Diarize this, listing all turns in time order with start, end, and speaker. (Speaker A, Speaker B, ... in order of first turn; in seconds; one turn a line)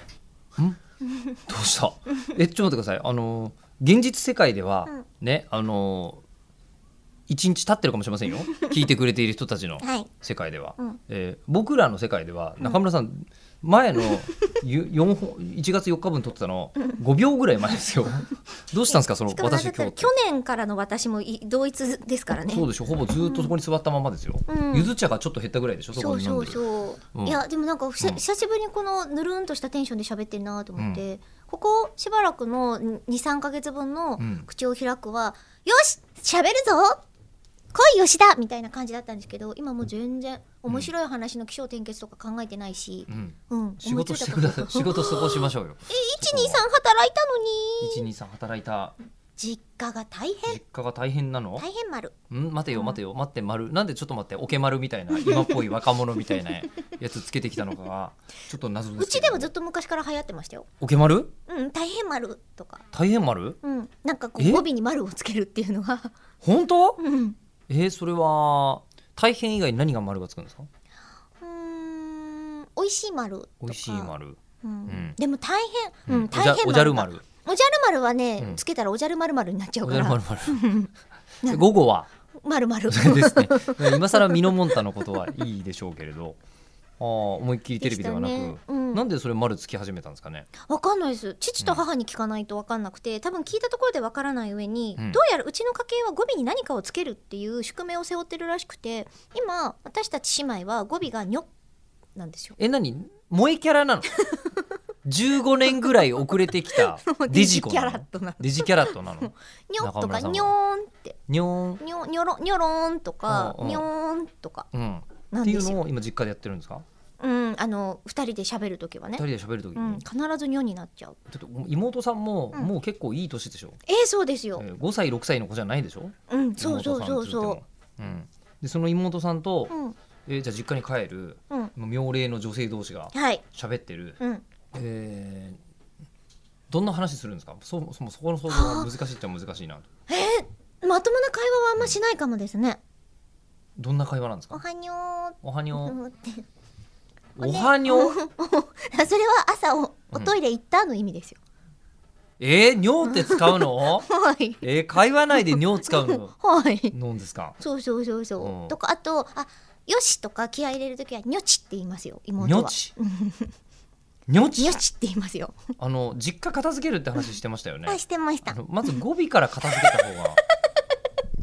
Speaker A: 1.5-6.2
Speaker A: 7.3-20.1
Speaker B: 9.8-10.1
Speaker B: 18.9-22.7
Speaker A: 22.4-26.6
Speaker B: 23.2-23.5
Speaker B: 24.5-24.9
Speaker B: 26.0-37.0
Speaker A: 27.1-27.4
Speaker A: 30.8-31.0
Speaker A: 34.2-34.5
Speaker B: 37.7-48.1
Speaker A: 43.1-46.6
Speaker A: 47.8-49.0
Speaker B: 49.4-50.6
Speaker A: 50.5-51.6
Speaker B: 51.6-52.1
Speaker A: 52.3-59.5
Speaker B: 52.7-53.0
Speaker B: 55.1-55.7
Speaker B: 59.0-60.7
Speaker A: 60.8-61.3
Speaker B: 61.5-62.9
Speaker A: 62.9-63.6
Speaker B: 63.6-66.2
Speaker A: 64.4-64.7
Speaker A: 66.4-67.0
Speaker B: 67.0-67.4
Speaker A: 67.7-70.7
Speaker B: 71.4-80.9
Speaker A: 73.6-75.2
Speaker A: 76.1-77.2
Speaker A: 79.8-80.6
Speaker A: 81.4-82.1
Speaker B: 82.4-84.5
Speaker A: 82.9-86.4
Speaker A: 87.0-90.5
Speaker B: 87.8-89.0
Speaker B: 90.6-101.5
Speaker B: 102.2-102.6
Speaker A: 102.6-104.1
Speaker B: 104.2-104.6
Speaker A: 105.0-110.5
Speaker B: 106.7-111.2
Speaker A: 111.3-111.8
Speaker B: 111.8-114.7
Speaker A: 113.3-113.9
Speaker A: 114.7-116.8
Speaker B: 115.3-115.8
Speaker B: 117.2-121.2
Speaker A: 119.2-120.0
Speaker A: 121.3-123.8
Speaker B: 123.9-124.6
Speaker A: 124.6-129.7
Speaker B: 126.3-127.6
Speaker B: 129.7-130.0
Speaker A: 130.3-134.2
Speaker B: 133.1-133.4
Speaker A: 134.7-135.6
Speaker A: 136.7-139.9
Speaker B: 138.5-138.9
Speaker B: 140.1-142.8
Speaker A: 143.8-144.6
Speaker B: 144.5-146.5
Speaker A: 145.4-146.0
Speaker A: 147.4-148.2
Speaker B: 147.4-151.4
Speaker A: 152.4-154.1
Speaker B: 153.0-154.6
Speaker A: 154.6-156.3
Speaker B: 155.3-156.9
Speaker A: 156.9-157.6
Speaker B: 157.6-163.5
Speaker A: 158.4-158.8
Speaker A: 162.4-162.9
Speaker A: 164.3-164.8
Speaker B: 164.6-165.6
Speaker A: 165.8-170.4
Speaker B: 167.9-168.6
Speaker B: 169.7-170.0